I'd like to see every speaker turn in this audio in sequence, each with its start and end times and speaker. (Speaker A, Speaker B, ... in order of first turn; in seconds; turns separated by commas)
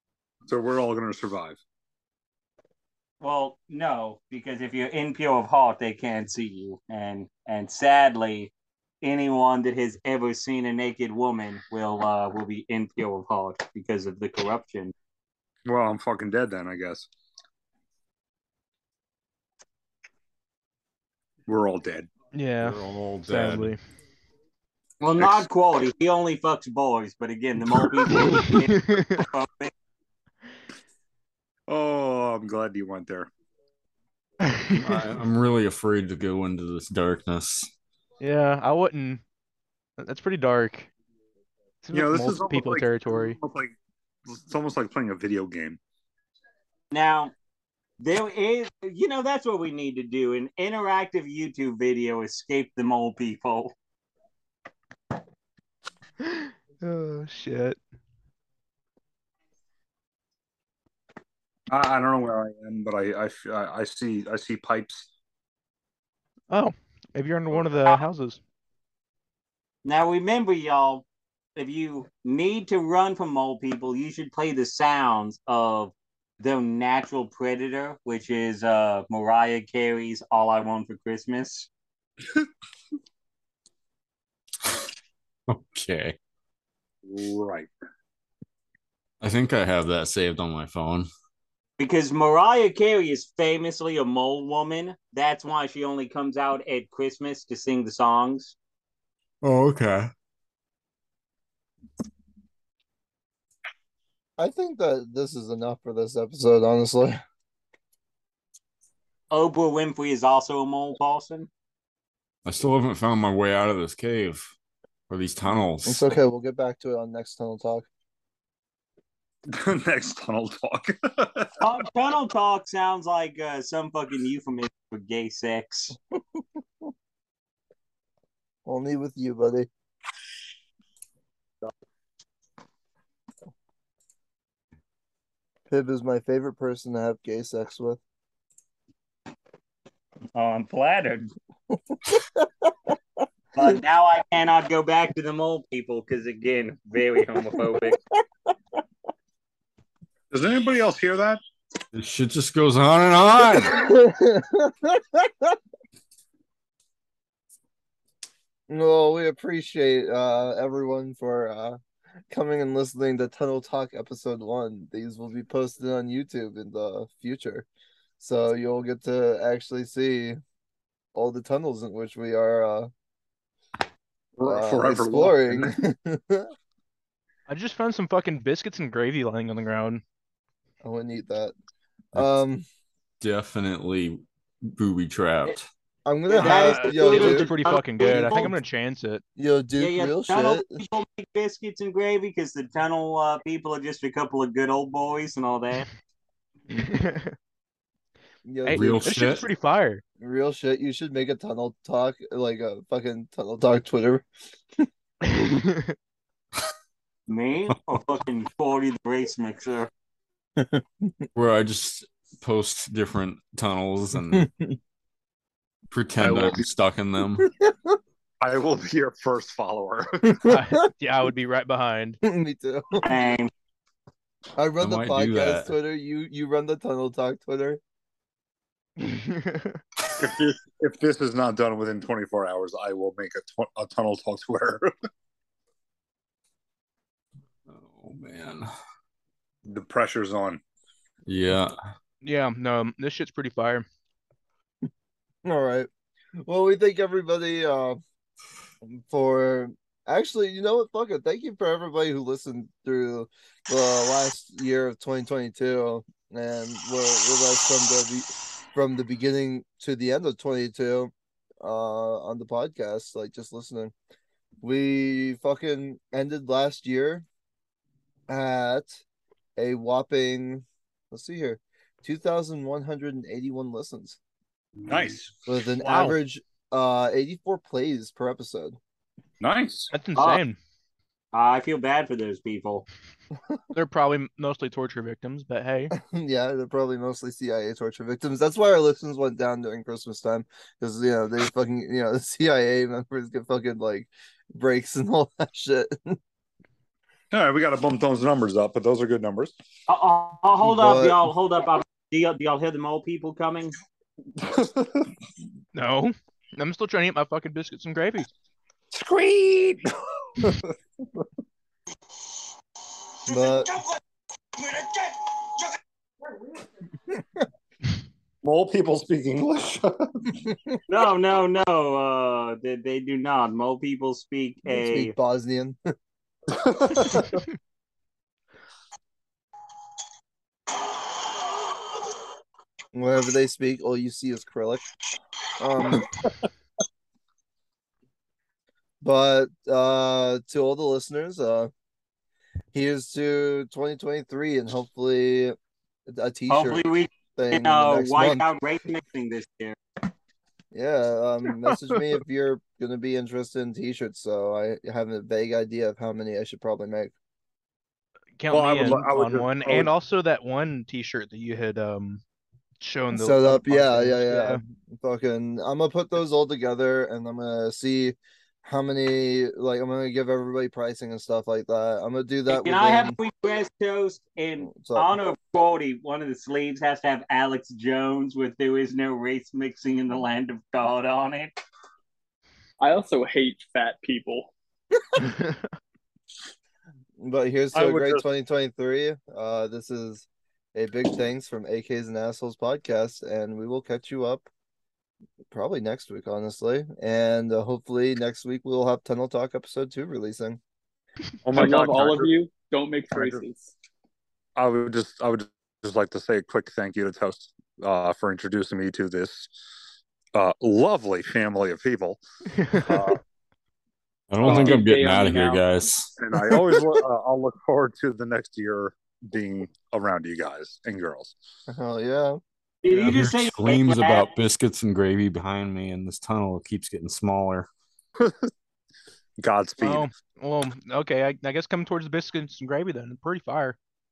Speaker A: 0.5-1.6, Speaker B: 3.2-14.9, Speaker A: 15.7-17.1, Speaker A: 21.5-22.1, Speaker C: 22.3-23.8, Speaker D: 22.6-23.8, Speaker B: 25.0-29.7, Speaker C: 28.1-29.2, Speaker A: 31.7-33.3, Speaker C: 34.4-35.0, Speaker D: 34.7-37.7, Speaker C: 38.2-39.2, Speaker C: 40.0-40.9, Speaker C: 41.8-43.4, Speaker A: 41.9-43.7, Speaker A: 44.3-45.8, Speaker B: 46.9-47.3, Speaker B: 48.0-53.8, Speaker C: 56.2-57.8, Speaker A: 61.7-65.1, Speaker C: 66.5-68.4, Speaker B: 69.8-71.0, Speaker B: 71.6-81.7, Speaker D: 85.5-86.2, Speaker A: 87.0-87.7, Speaker D: 89.2-91.1, Speaker B: 91.8-98.5, Speaker D: 99.4-100.1, Speaker E: 104.4-107.2, Speaker B: 109.3-111.5, Speaker D: 112.5-114.5, Speaker D: 115.1-116.1, Speaker E: 115.8-117.9, Speaker A: 119.5-121.5, Speaker B: 121.6-126.0, Speaker E: 126.2-126.4, Speaker E: 128.7-129.7, Speaker E: 135.7-138.0, Speaker B: 140.3-141.3, Speaker E: 141.9-142.9, Speaker B: 143.6-148.0, Speaker A: 150.3-151.4, Speaker D: 151.9-153.8, Speaker E: 153.4-155.6, Speaker E: 158.7-161.8, Speaker E: 162.3-167.7, Speaker E: 168.2-170.4, Speaker E: 171.1-172.9, Speaker A: 174.4-175.7, Speaker E: 174.4-176.5, Speaker C: 177.5-180.0, Speaker E: 180.8-181.5, Speaker E: 182.1-182.7, Speaker D: 183.2-185.7, Speaker E: 186.1-187.5, Speaker B: 186.3-188.5, Speaker C: 186.4-189.2, Speaker E: 189.4-190.8, Speaker B: 189.8-195.9, Speaker C: 196.7-197.3, Speaker E: 198.4-199.0, Speaker C: 198.7-200.0, Speaker D: 198.7-199.5, Speaker E: 200.2-204.2, Speaker C: 205.2-205.9, Speaker B: 207.3-209.9, Speaker E: 210.6-211.2, Speaker D: 211.3-214.5, Speaker E: 214.3-214.8, Speaker D: 215.9-217.5, Speaker A: 216.2-216.6, Speaker E: 217.6-217.9, Speaker A: 218.4-220.3, Speaker C: 220.4-222.2, Speaker E: 220.4-220.9, Speaker E: 222.2-223.1, Speaker B: 223.0-223.5, Speaker E: 224.6-227.8, Speaker D: 224.8-225.7, Speaker C: 229.0-229.8, Speaker A: 230.1-234.9, Speaker D: 237.7-238.7, Speaker A: 239.7-240.6, Speaker D: 241.3-241.8, Speaker C: 242.2-243.9, Speaker E: 245.4-245.9, Speaker E: 246.4-248.0, Speaker E: 248.8-263.9, Speaker E: 264.6-267.2, Speaker E: 268.3-269.0, Speaker E: 269.6-274.2, Speaker A: 274.9-275.4, Speaker E: 275.5-278.8, Speaker C: 275.8-276.1, Speaker A: 279.4-279.9, Speaker C: 279.9-280.6, Speaker B: 280.2-280.4, Speaker B: 281.3-282.9, Speaker C: 283.7-285.9, Speaker E: 285.9-296.2, Speaker A: 297.3-299.5, Speaker B: 299.9-303.7, Speaker E: 300.6-301.2, Speaker A: 304.4-305.1, Speaker C: 305.7-308.3, Speaker A: 308.9-309.9, Speaker E: 313.3-313.7, Speaker A: 318.4-320.3, Speaker B: 320.9-325.1, Speaker E: 324.6-325.8, Speaker A: 326.5-327.4, Speaker E: 332.9-334.9, Speaker E: 335.6-336.1, Speaker A: 335.9-336.3, Speaker E: 339.0-341.7, Speaker E: 342.7-348.5, Speaker B: 346.5-349.8, Speaker E: 350.7-357.1, Speaker A: 351.5-352.1, Speaker C: 358.4-362.2, Speaker A: 358.5-359.9, Speaker C: 362.8-364.6, Speaker E: 363.1-373.2, Speaker B: 372.5-381.5, Speaker E: 374.6-375.1, Speaker F: 382.8-384.5, Speaker E: 387.2-394.5, Speaker A: 387.7-388.2, Speaker E: 395.5-400.6, Speaker A: 401.4-402.3, Speaker F: 401.5-403.7, Speaker A: 403.1-403.4, Speaker A: 404.6-409.5, Speaker A: 410.4-413.2, Speaker C: 412.6-412.9, Speaker D: 414.3-416.1, Speaker A: 414.4-414.8, Speaker F: 414.4-415.6, Speaker A: 416.2-421.4, Speaker E: 421.7-422.4, Speaker B: 422.8-424.3, Speaker D: 423.1-427.7, Speaker A: 428.2-428.4, Speaker A: 429.4-430.1, Speaker C: 429.8-433.8